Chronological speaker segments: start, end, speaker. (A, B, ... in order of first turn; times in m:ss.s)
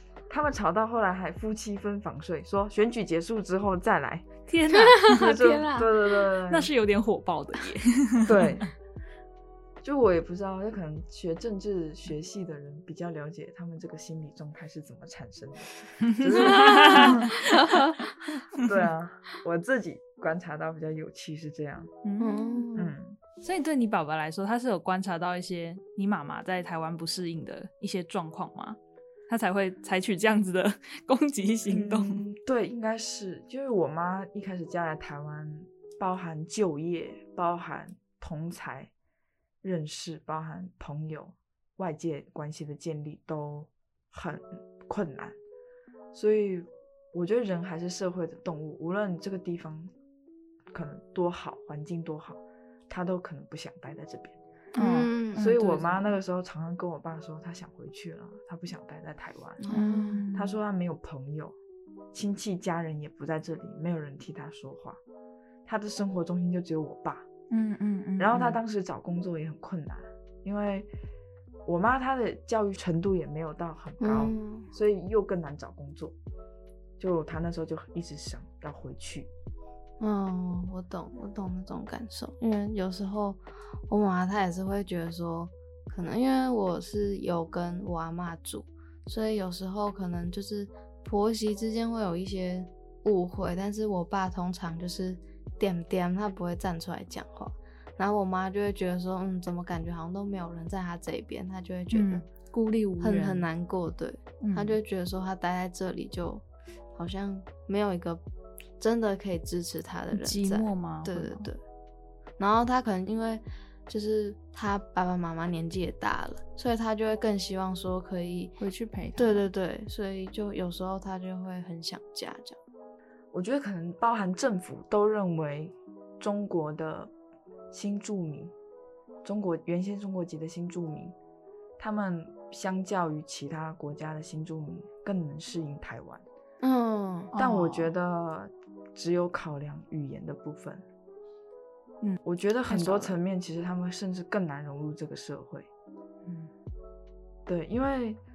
0:00.3-0:04.3 A
0:04.5-0:05.7 B
0:04.7-0:05.9 C
0:05.2-0:06.7 A
0:06.5-0:08.5 B
0:08.2-0:08.7 A
0:09.8-0:17.4 A
0:16.0-0:17.9 B
0:16.4-0:18.0 C
0:18.5-0:21.9 A
0:22.0-0:22.7 B
0:22.2-0:22.9 C
0:22.8-0:23.2 A
0:23.4-0:28.8 B
0:29.3-0:32.2 B
0:31.7-0:38.9 A
0:39.6-0:45.4 A
0:46.1-0:49.9 A
0:50.7-0:54.4 A
0:54.8-0:56.2 B
0:54.8-0:55.5 C
0:55.4-0:59.7 A
0:59.6-1:00.2 C
0:59.7-1:00.6 B
1:00.3-1:01.6 A
1:02.1-1:05.0 A
1:05.7-1:07.3 A
1:07.5-1:08.6 B
1:08.2-1:10.9 A
1:11.6-1:16.2 A
1:14.0-1:14.7 C
1:17.0-1:19.3 A
1:20.0-1:42.2 C
1:41.9-1:43.5 B
1:43.0-1:46.4 C
1:44.4-1:44.8 B
1:46.9-1:48.2 C
1:48.8-1:51.6 C
1:50.1-1:51.5 B
1:52.4-1:58.5 C
1:58.6-1:59.4 B
1:59.2-2:02.6 C
2:03.3-2:07.1 A
2:07.7-2:08.5 A
2:09.2-2:11.2 A
2:11.8-2:16.2 A
2:16.6-2:17.3 C
2:17.3-2:17.9 B
2:17.4-2:20.8 A
2:22.0-2:23.2 B
2:22.2-2:25.7 A
2:26.2-2:26.5 B
2:27.5-2:28.2 A